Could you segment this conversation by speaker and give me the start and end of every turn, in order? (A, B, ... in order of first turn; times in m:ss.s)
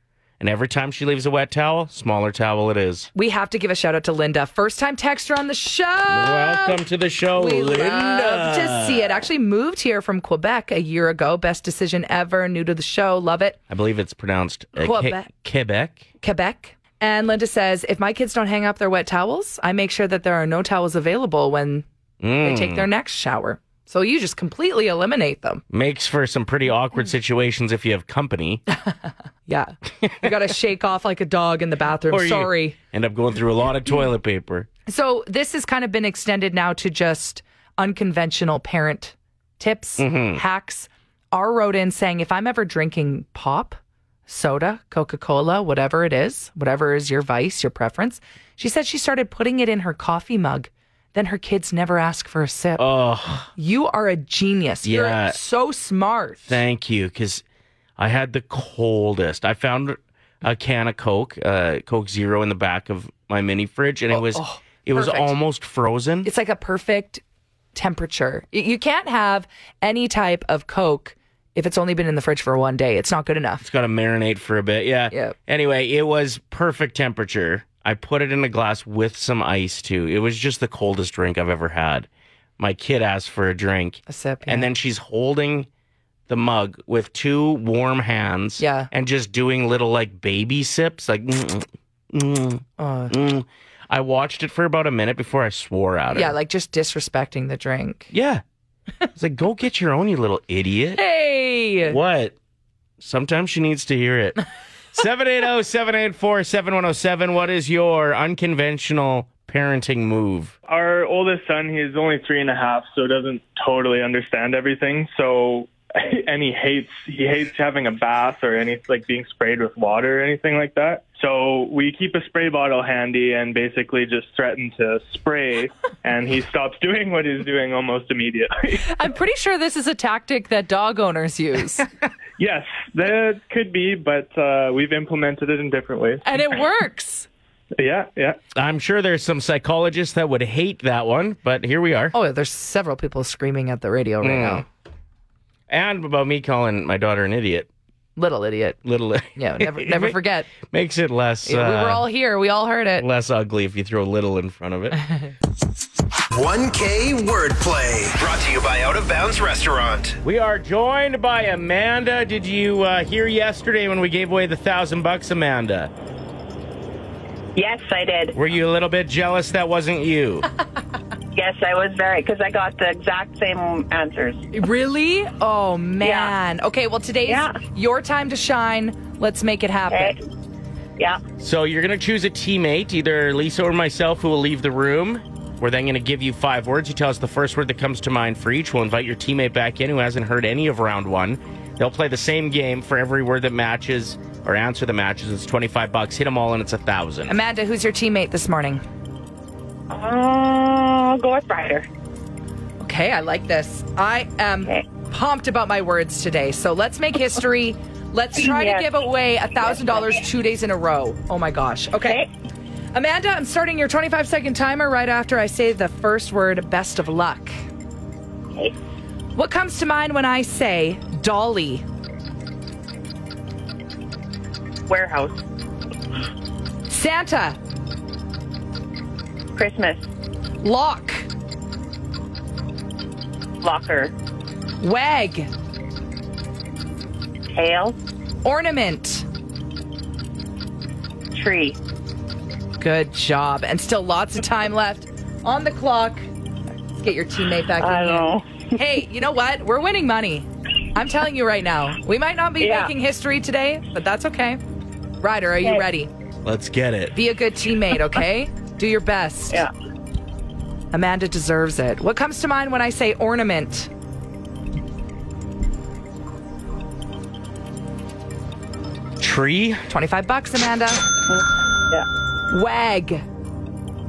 0:00.4-0:03.1 A
0:03.2-0:06.8 B
0:06.1-0:09.2 A
0:07.4-0:13.6 B
0:13.7-0:16.0 A
0:14.8-0:15.3 B
0:16.2-0:21.9 B
0:22.2-0:22.9 A
0:22.4-0:25.6 B
0:25.7-0:28.6 A
0:29.5-0:32.8 B
0:30.0-0:30.3 A
0:32.1-0:34.7 A
0:34.9-0:52.8 B
0:40.0-0:40.4 A
0:52.8-0:53.5 A
0:53.6-0:56.6 B
0:54.8-0:55.4 A
0:56.5-0:57.4 A
0:58.0-1:06.3 A
1:04.1-1:05.4 B
1:06.2-1:07.2 B
1:07.8-1:13.6 B
1:13.6-1:22.1 A
1:22.6-1:25.7 A
1:24.1-1:24.7 B
1:26.3-1:36.4 A
1:28.6-1:28.9 B
1:32.8-1:33.2 B
1:36.1-1:38.1 B
1:38.1-1:38.4 A
1:39.2-1:41.0 A
1:41.0-1:42.0 B
1:41.8-1:42.4 A
1:43.0-1:44.4 A
1:44.9-1:50.5 A
1:50.7-2:08.9 C
2:08.9-2:11.9 B
2:12.4-2:16.3 C
2:16.2-2:17.3 B
2:17.8-2:18.4 C
2:18.5-2:22.2 A
2:22.1-2:24.7 B
2:24.2-2:24.7 A
2:25.7-2:27.7 A
2:28.2-2:28.8 B
2:28.8-2:32.0 A
2:29.4-2:30.5 B
2:31.5-2:33.0 B
2:33.0-2:35.0 A
2:36.3-2:40.2 D
2:40.2-2:45.9 A
2:47.6-2:48.3 E
2:48.3-2:50.5 A
2:51.4-2:54.4 E
2:54.5-3:00.2 B
2:56.0-2:56.3 E
2:57.3-2:57.6 E
2:59.9-3:00.2 E
3:01.4-3:17.4 A
3:17.3-3:18.8 B
3:19.9-3:21.9 E
3:22.8-3:32.2 B
3:28.4-3:28.9 E
3:29.7-3:30.1 E
3:32.0-3:32.3 E
3:32.9-3:37.5 B
3:39.4-3:41.8 B
3:44.9-3:45.4 E
3:46.9-3:47.6 B
3:49.6-3:50.0 E
3:50.6-3:51.3 B
3:53.6-3:54.1 E
3:54.8-3:55.5 B
3:57.5-3:58.0 E
3:58.4-3:59.3 B
4:01.3-4:01.8 E
4:02.8-4:06.2 B
4:07.0-4:14.6 B
4:07.8-4:08.7 E
4:12.6-4:12.9 E
4:15.2-4:16.1 B
4:16.4-4:17.2 A
4:17.1-4:19.6 B
4:20.9-4:23.9 B
4:29.2-4:29.8 A
4:29.9-4:31.0 B
4:32.5-4:33.2 B